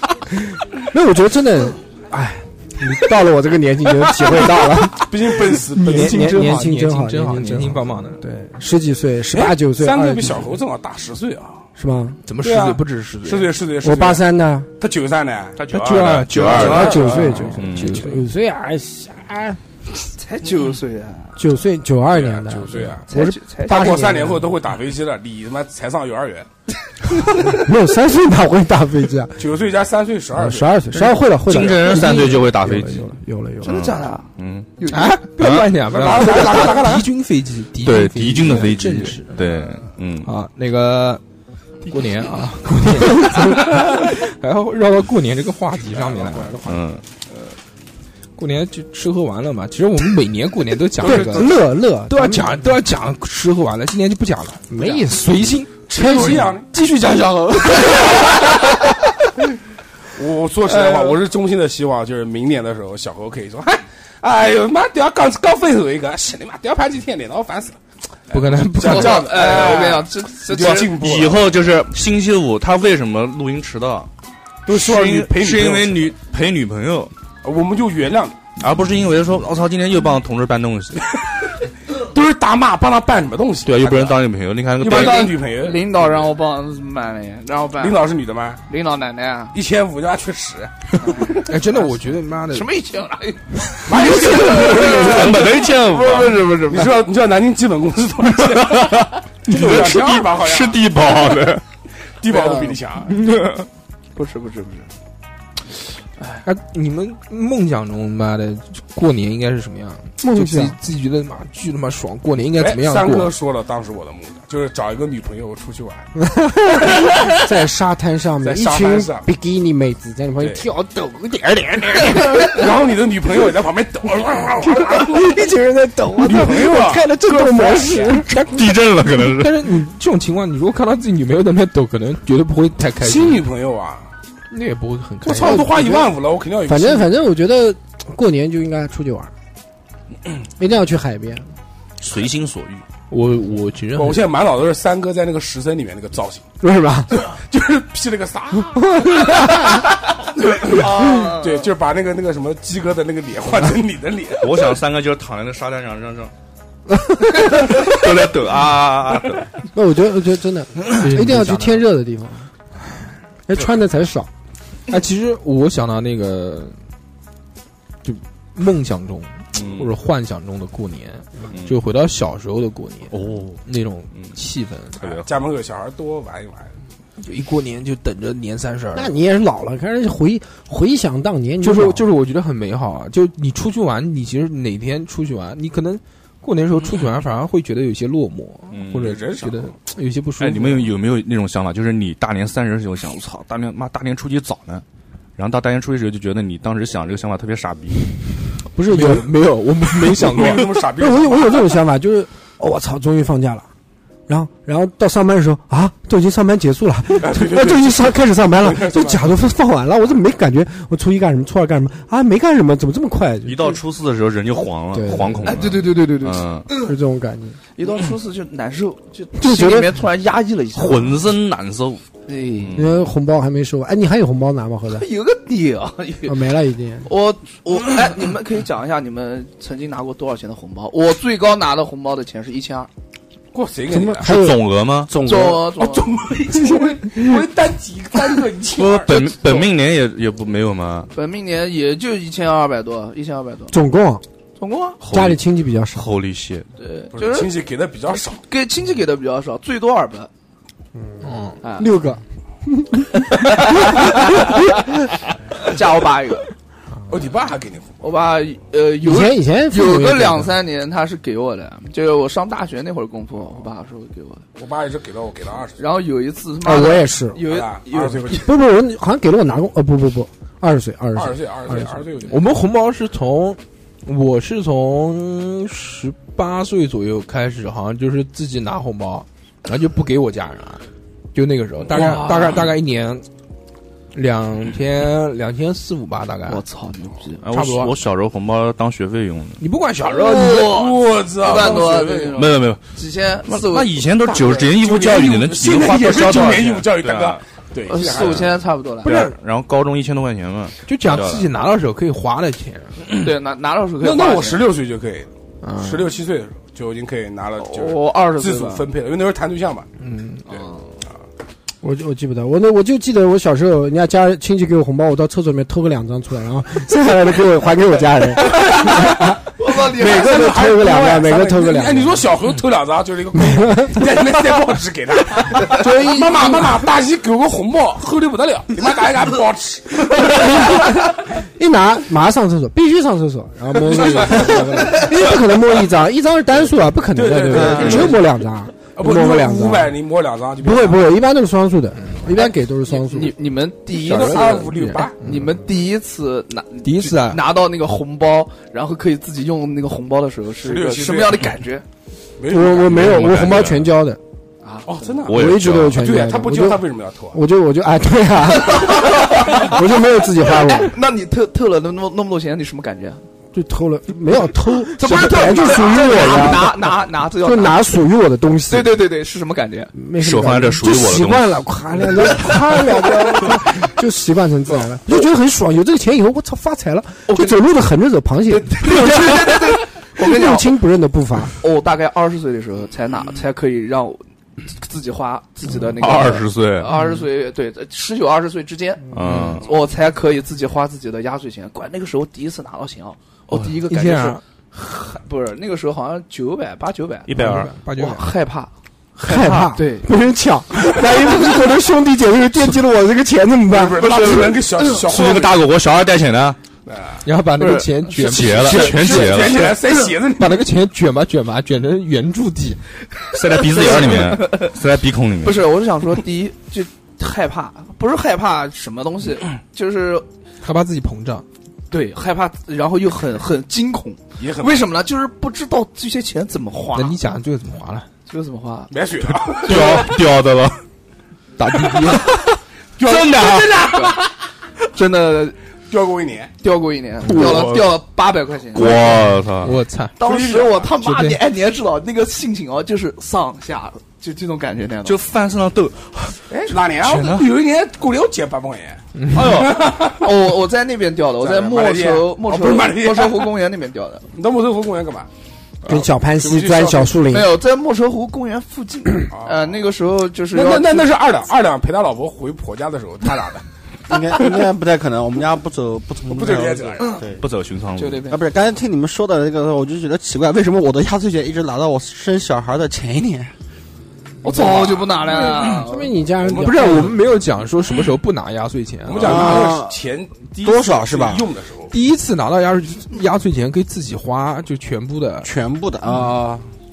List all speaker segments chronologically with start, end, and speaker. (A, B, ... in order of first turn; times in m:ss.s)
0:00.9-0:10.5 A
0:04.9-0:06.4 B
0:05.7-0:08.2 C
0:09.3-0:11.6 B
0:11.8-0:12.2 A
0:12.2-0:13.5 C
0:12.4-0:14.2 B
0:13.8-0:14.7 A
0:14.8-0:17.5 B
0:15.6-0:18.1 D
0:15.7-0:18.2 C
0:16.5-0:19.6 A
0:20.2-0:21.4 E
0:21.4-0:24.5 A
0:22.1-0:23.1 B
0:23.1-0:24.0 E
0:23.6-0:26.5 B
0:27.4-0:29.4 A
0:29.4-0:30.8 B
0:30.3-0:33.7 A
0:30.9-0:33.1 D
0:33.6-0:35.2 E
0:33.6-0:34.7 D
0:34.9-0:39.4 C
0:35.4-0:35.7 D
0:35.9-0:37.1 B
0:37.8-0:40.3 D
0:40.2-0:41.2 C
0:41.8-0:46.6 C
0:43.0-0:43.4 A
0:45.8-0:46.9 B
0:46.6-0:47.0 D
0:48.4-0:55.7 C
0:51.0-0:51.7 B
0:51.0-0:52.8 A
0:54.7-0:56.6 A
0:55.9-0:56.7 B
0:56.3-0:58.6 C
1:00.1-1:07.8 B
1:00.7-1:01.2 E
1:08.3-1:11.5 B
1:08.3-1:09.4 C
1:08.8-1:10.9 E
1:10.6-1:14.1 D
1:14.6-1:16.1 B
1:14.7-1:17.1 D
1:17.4-1:18.4 B
1:18.6-1:21.0 D
1:22.0-1:26.3 B
1:23.6-1:25.4 D
1:24.8-1:28.1 E
1:27.8-1:28.6 B
1:28.7-1:29.6 E
1:29.5-1:31.4 B
1:31.0-1:31.3 E
1:31.5-1:32.7 C
1:32.5-1:36.8 E
1:33.8-1:35.7 B
1:33.9-1:36.8 D
1:36.6-1:40.8 B
1:38.3-1:41.6 D
1:42.2-1:43.1 B
1:42.3-1:42.8 E
1:43.2-1:43.6 D
1:44.1-1:44.9 E
1:46.4-1:53.3 C
1:50.2-1:50.7 A
1:52.6-1:56.1 B
1:56.2-2:02.7 A
1:58.4-1:59.2 B
2:00.4-2:00.7 B
2:02.3-2:05.5 B
2:04.6-2:08.3 A
2:06.2-2:07.1 B
2:07.2-2:08.6 C
2:08.3-2:09.8 D
2:09.3-2:13.4 C
2:13.0-2:14.1 B
2:14.5-2:15.8 C
2:15.2-2:17.1 B
2:15.4-2:16.1 A
2:16.6-2:19.3 A
2:20.6-2:21.4 A
2:22.0-2:22.8 D
2:23.1-2:24.3 C
2:23.9-2:26.4 B
2:26.6-2:27.2 A
2:27.2-2:29.6 B
2:28.8-2:29.8 A
2:30.4-2:34.8 B
2:30.7-2:31.7 E
2:34.4-2:36.3 D
2:37.4-2:39.5 D
2:39.7-2:42.4 A
2:41.0-2:41.9 C
2:43.5-2:44.3 A
2:44.9-2:46.7 C
2:48.0-2:55.0 C
2:49.5-2:49.9 D
2:51.5-2:51.8 D
2:53.1-2:53.6 D
2:55.0-2:55.3 D
2:55.0-2:56.7 B
2:57.2-2:59.1 C
2:58.9-3:02.0 A
3:01.6-3:10.9 C
3:08.7-3:09.1 D
3:09.0-3:09.7 B
3:10.4-3:14.8 D
3:15.4-3:18.1 D
3:18.7-3:19.3 A
3:18.8-3:20.7 C
3:20.1-3:21.8 B
3:20.6-3:23.7 A
3:24.3-3:33.8 A
3:27.2-3:29.5 B
3:33.4-3:36.7 D
3:34.9-3:35.7 A
3:35.4-3:36.9 E
3:36.8-3:37.6 A
3:37.8-3:41.3 E
3:39.4-3:39.9 A
3:40.7-3:42.0 D
3:42.3-3:42.8 E
3:42.6-3:43.0 D
3:42.7-3:45.0 A
3:44.9-3:46.5 E
3:46.2-3:47.1 A
3:47.0-3:52.9 E
3:53.5-3:54.3 B
3:53.9-3:54.6 A
3:54.2-3:55.1 D
3:55.1-3:55.7 F
3:55.2-3:56.2 E
3:55.8-3:59.6 B
3:58.8-4:01.1 D
3:59.1-3:59.6 E
4:01.1-4:03.7 E
4:03.7-4:04.2 A
4:04.6-4:05.0 E
4:05.0-4:06.7 D
4:05.1-4:06.1 A
4:06.8-4:07.5 E
4:07.1-4:08.4 B
4:08.4-4:10.3 E
4:11.0-4:11.2 A
4:11.2-4:11.6 C
4:11.6-4:12.0 E
4:11.8-4:14.8 A
4:13.3-4:15.0 E
4:15.6-4:16.5 E
4:17.1-4:18.0 B
4:18.0-4:24.4 E
4:19.0-4:20.5 A
4:24.6-4:25.8 B
4:25.8-4:28.4 E
4:26.6-4:27.4 A
4:27.4-4:28.5 B
4:28.4-4:32.0 A
4:31.2-4:32.4 B
4:32.3-4:40.8 C
4:41.3-4:43.2 C
4:41.9-4:42.7 E
4:44.1-4:46.6 C
4:46.5-4:47.4 E
4:47.4-4:49.6 D
4:47.5-4:48.0 C
4:49.6-4:50.7 C
4:50.0-4:54.1 E
4:50.2-4:52.5 B
4:52.3-4:52.8 D
4:53.4-4:57.4 D
4:54.2-4:58.6 B
4:57.9-4:59.2 E
4:58.1-5:01.5 D
4:59.0-4:59.4 C
5:00.8-5:03.0 C
5:03.1-5:04.7 E
5:04.0-5:09.9 B
5:05.6-5:06.1 C
5:07.6-5:08.9 E
5:10.0-5:10.4 C
5:10.5-5:10.8 E
5:11.8-5:22.3 A
5:18.5-5:20.5 E
5:19.7-5:30.6 B
5:23.3-5:24.0 A
5:25.7-5:26.8 A
5:30.0-5:39.9 A
5:33.8-5:35.3 B
5:37.1-5:38.3 B
5:38.9-5:41.1 B
5:40.6-5:43.4 A
5:42.3-5:51.8 E
5:43.9-5:45.2 B
5:44.1-5:45.5 C
5:46.8-5:47.4 C
5:50.6-5:51.5 B
5:52.4-5:53.4 B
5:52.5-5:54.2 A
5:52.8-5:53.9 D
5:54.6-5:55.1 E
5:54.8-5:57.4 B
5:55.3-5:56.0 D
5:55.3-6:00.9 A
5:58.9-5:59.7 E
6:00.6-6:03.2 E
6:03.5-6:09.0 A
6:04.9-6:07.8 E
6:08.7-6:09.9 E
6:09.9-6:21.5 A
6:10.2-6:11.6 D
6:17.3-6:17.6 E
6:18.5-6:20.8 E
6:21.6-6:38.7 E
6:26.0-6:26.9 D
6:29.1-6:29.7 D
6:29.2-6:29.6 C
6:33.5-6:34.4 C
6:37.2-6:37.7 D
6:37.3-6:38.3 C
6:39.2-6:44.1 A
6:39.2-6:40.1 E
6:43.7-6:45.7 B
6:44.0-6:44.8 E
6:44.9-6:46.6 D
6:46.8-6:47.2 B
6:47.2-6:49.2 C
6:47.6-6:48.5 E
6:48.1-6:49.8 D
6:48.6-6:50.7 B
6:50.4-6:52.8 C
6:53.3-6:55.7 D
6:53.5-6:54.7 E
6:55.4-7:00.2 E
7:00.6-7:01.4 C
7:01.9-7:07.2 E
7:04.4-7:04.9 B
7:06.9-7:08.1 C
7:08.3-7:08.9 E
7:08.9-7:10.0 B
7:09.3-7:10.8 D
7:09.6-7:10.0 E
7:11.6-7:12.3 C
7:12.0-7:12.4 D
7:13.0-7:14.2 B
7:13.0-7:13.9 D
7:13.9-7:14.2 E
7:14.9-7:15.6 E
7:15.9-7:16.5 B
7:16.6-7:19.2 E
7:17.2-7:17.8 C
7:17.2-7:17.9 D
7:18.7-7:19.8 D
7:19.6-7:20.2 C
7:20.2-7:25.2 E
7:20.2-7:21.0 B
7:21.0-7:21.4 C
7:25.0-7:27.5 D
7:26.5-7:30.3 B
7:29.1-7:29.5 C
7:29.3-7:29.8 D
7:29.9-7:34.2 E
7:31.4-7:33.5 B
7:34.3-7:35.3 B
7:35.8-7:37.4 B
7:35.8-7:37.6 A
7:37.3-7:41.1 E
7:39.3-7:39.8 B
7:40.5-7:43.6 B
7:44.1-7:47.4 F
7:46.3-7:47.2 B
7:47.4-7:48.3 D
7:48.0-7:48.4 E
7:48.2-7:53.5 F
7:54.4-7:56.3 E
7:54.5-7:55.1 B
7:55.2-7:57.2 A
7:56.4-7:57.2 B
7:56.6-7:59.6 C
7:59.0-8:01.9 B
7:59.2-8:00.0 F
8:00.6-8:01.5 F
8:01.9-8:05.5 C
8:05.4-8:06.7 F